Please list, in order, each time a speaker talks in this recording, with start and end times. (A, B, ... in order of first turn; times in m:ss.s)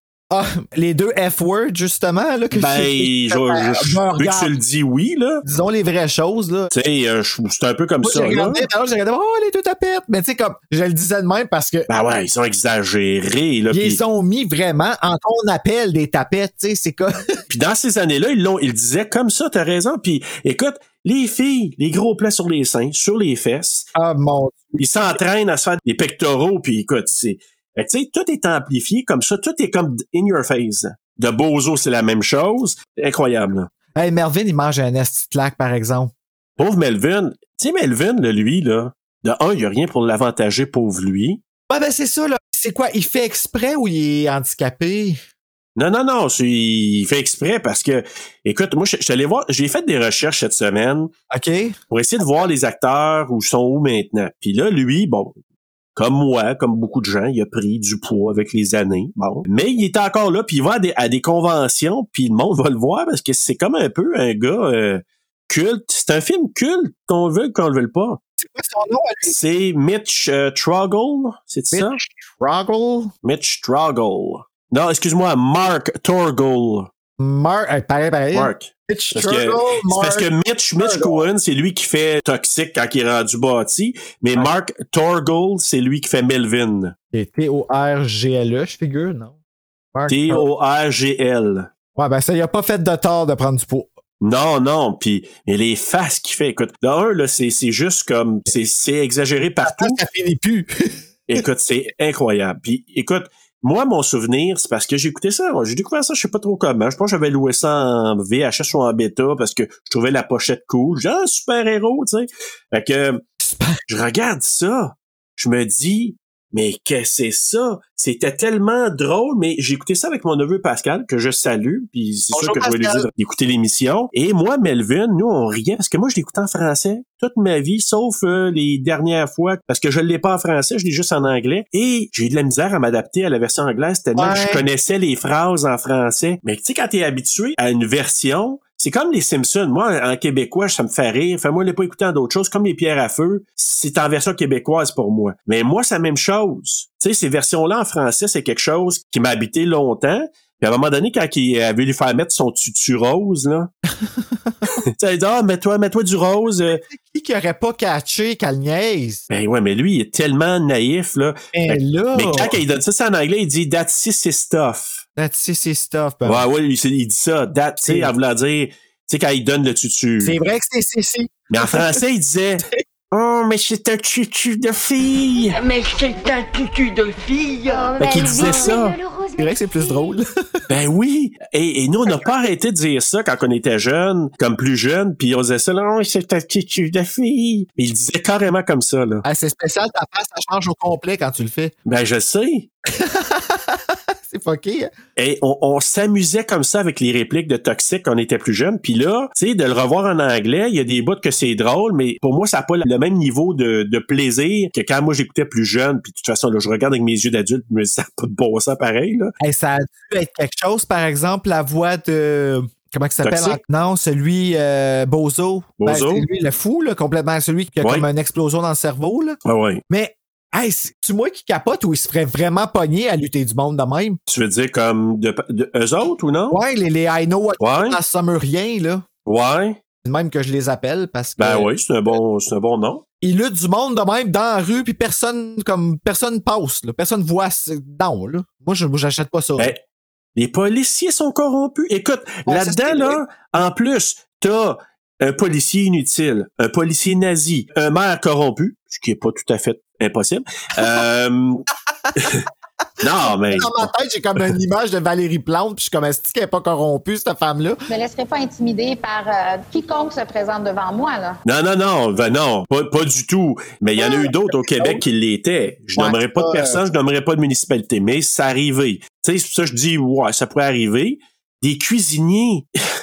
0:00.3-0:04.5 A
0:02.5-0:05.4 B
0:05.4-0:06.7 A
0:06.7-0:08.7 B
0:08.0-0:11.9 A
0:11.9-0:14.0 B
0:13.7-0:17.2 A
0:17.5-0:23.9 B
0:23.9-0:24.8 A
0:24.8-0:33.7 B
0:34.0-0:36.1 A
0:36.6-0:41.4 B
0:41.7-0:45.2 A
0:45.8-0:51.1 B
0:51.3-0:51.8 A
0:51.9-0:55.4 B
0:56.0-1:08.2 B
1:08.4-1:09.3 A
1:09.2-1:12.0 B
1:11.7-1:13.1 A
1:13.2-1:16.9 B
1:17.2-1:21.2 A
1:18.3-1:26.9 B
1:27.1-1:29.3 A
1:29.9-1:30.4 A
1:30.1-1:31.7 B
1:32.0-1:33.9 A
1:34.2-1:40.0 B
1:39.6-1:41.4 A
1:41.3-1:53.2 B
1:53.4-1:53.8 A
1:53.9-2:33.7 B
2:02.3-2:03.1 A
2:14.2-2:14.6 A
2:34.8-2:36.8 B
2:36.7-2:39.2 A
2:39.3-2:45.0 B
2:41.5-2:42.6 A
2:45.2-2:46.5 A
2:46.2-2:50.4 B
2:47.8-2:48.1 A
2:50.2-2:52.0 A
2:51.5-2:55.6 B
2:55.5-2:59.4 C
2:58.0-2:58.9 B
2:59.4-3:00.2 A
3:00.7-3:09.2 B
3:09.2-3:11.7 A
3:11.8-3:12.7 B
3:12.9-3:14.9 A
3:15.2-3:29.3 B
3:29.4-3:39.4 A
3:33.2-3:33.6 B
3:35.8-3:36.2 B
3:37.8-3:38.0 B
3:39.4-3:39.8 B
3:39.9-3:44.2 A
3:44.3-3:46.6 B
3:46.5-3:49.0 A
3:47.6-3:48.0 B
3:49.2-3:49.8 B
3:50.0-3:51.7 A
3:51.4-3:53.0 B
3:53.2-3:59.7 A
4:00.4-4:11.6 B
4:02.4-4:03.2 A
4:12.2-4:12.4 B
4:13.0-4:13.9 B
4:13.5-4:17.8 A
4:18.0-4:21.2 D
4:21.4-4:32.7 B
4:24.0-4:25.0 A
4:26.0-4:26.8 A